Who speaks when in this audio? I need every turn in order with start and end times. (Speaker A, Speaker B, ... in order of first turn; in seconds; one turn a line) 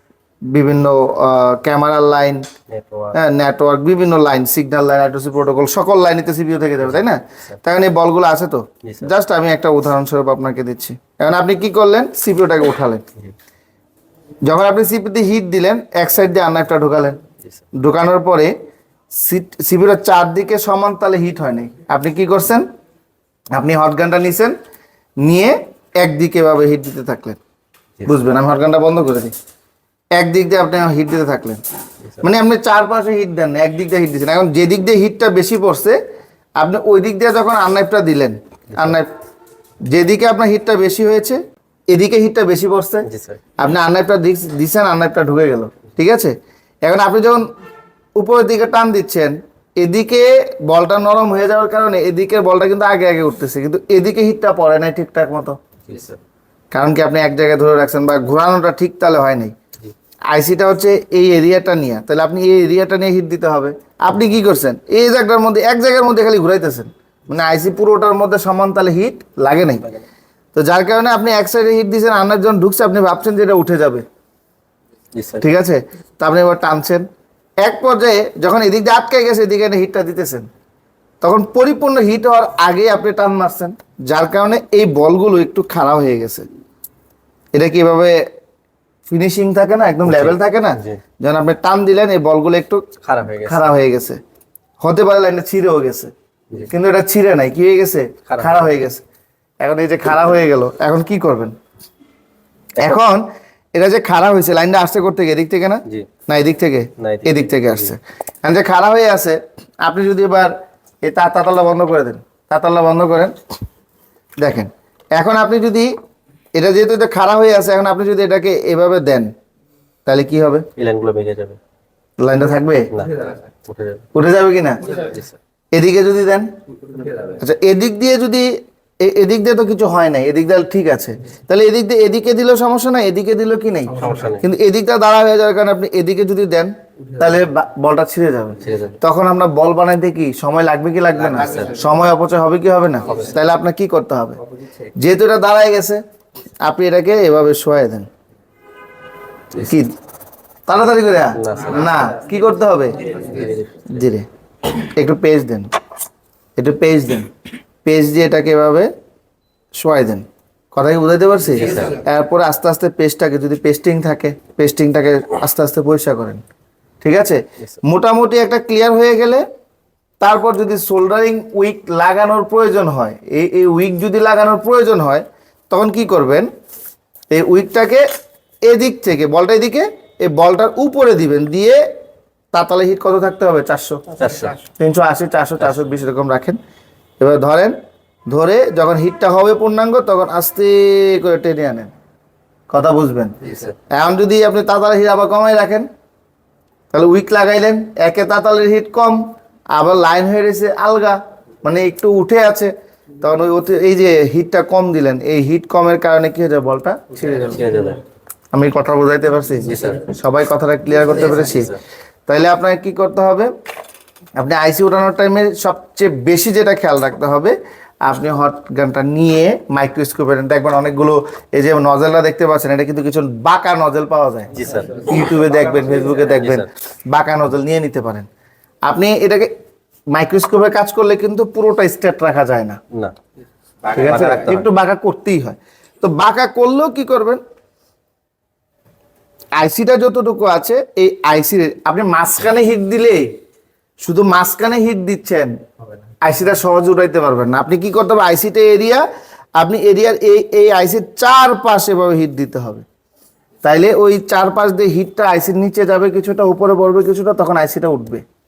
Speaker A: 0.5-2.4
Speaker B: 2.7-3.2
Speaker A: 3.1-13.0
Speaker B: 8.8-9.1
Speaker A: 14.4-17.2
Speaker A: 17.7-18.5
Speaker A: 19.1-22.6
Speaker A: 23.5-24.6
Speaker A: 25.2-27.4
Speaker A: 28.0-29.3
Speaker A: 30.1-31.6
Speaker A: 32.2-36.0
Speaker A: 36.6-39.1
Speaker B: 38.7-39.0
Speaker A: 39.9-47.5
Speaker B: 43.0-43.4
Speaker A: 48.1-55.6
Speaker B: 55.9-56.2
Speaker A: 56.7-59.5
Speaker A: 60.3-69.9
Speaker A: 70.5-74.0
Speaker B: 75.1-75.4
Speaker A: 75.4-77.0
Speaker A: 77.6-80.5
Speaker A: 81.2-86.5
Speaker A: 87.5-88.2
Speaker A: 89.1-92.8
Speaker B: 90.0-91.0
Speaker B: 93.0-93.8
Speaker A: 93.4-94.2
Speaker A: 94.8-96.1
Speaker A: 96.7-99.0
Speaker B: 98.3-98.7
Speaker A: 99.6-101.5
Speaker A: 102.8-113.3
Speaker B: 107.0-107.9
Speaker A: 114.4-115.9
Speaker A: 116.5-119.3
Speaker A: 120.0-120.7
Speaker B: 120.8-121.6
Speaker A: 122.2-122.9
Speaker B: 122.9-124.0
Speaker A: 124.1-125.0
Speaker B: 124.9-125.3
Speaker A: 125.7-126.5
Speaker A: 127.4-144.4
Speaker B: 133.9-134.4
Speaker B: 138.6-139.0
Speaker B: 141.3-141.7
Speaker A: 145.0-146.0
Speaker A: 146.6-148.1
Speaker A: 149.5-149.9
Speaker A: 150.7-153.2
Speaker B: 151.3-151.8
Speaker B: 153.2-153.9
Speaker A: 153.9-155.7
Speaker A: 156.6-157.3
Speaker A: 157.8-158.9
Speaker A: 159.7-166.4
Speaker A: 167.0-169.4
Speaker A: 170.2-176.5
Speaker A: 177.3-178.1
Speaker A: 178.6-181.8
Speaker A: 182.5-184.0
Speaker B: 184.2-184.6
Speaker A: 184.8-186.6
Speaker A: 187.2-187.8
Speaker A: 188.3-191.9
Speaker A: 192.7-195.9
Speaker A: 196.9-199.2
Speaker A: 199.7-207.6
Speaker B: 207.4-208.0
Speaker A: 208.5-211.8
Speaker B: 209.6-210.1
Speaker A: 212.3-213.5
Speaker A: 214.4-228.3
Speaker B: 224.5-225.1
Speaker B: 226.4-226.7
Speaker A: 228.9-229.5
Speaker A: 230.1-232.8
Speaker B: 233.9-234.7
Speaker A: 233.9-237.4
Speaker A: 239.6-243.3
Speaker A: 244.0-245.5
Speaker A: 246.2-249.1
Speaker A: 249.6-252.8
Speaker A: 253.6-258.2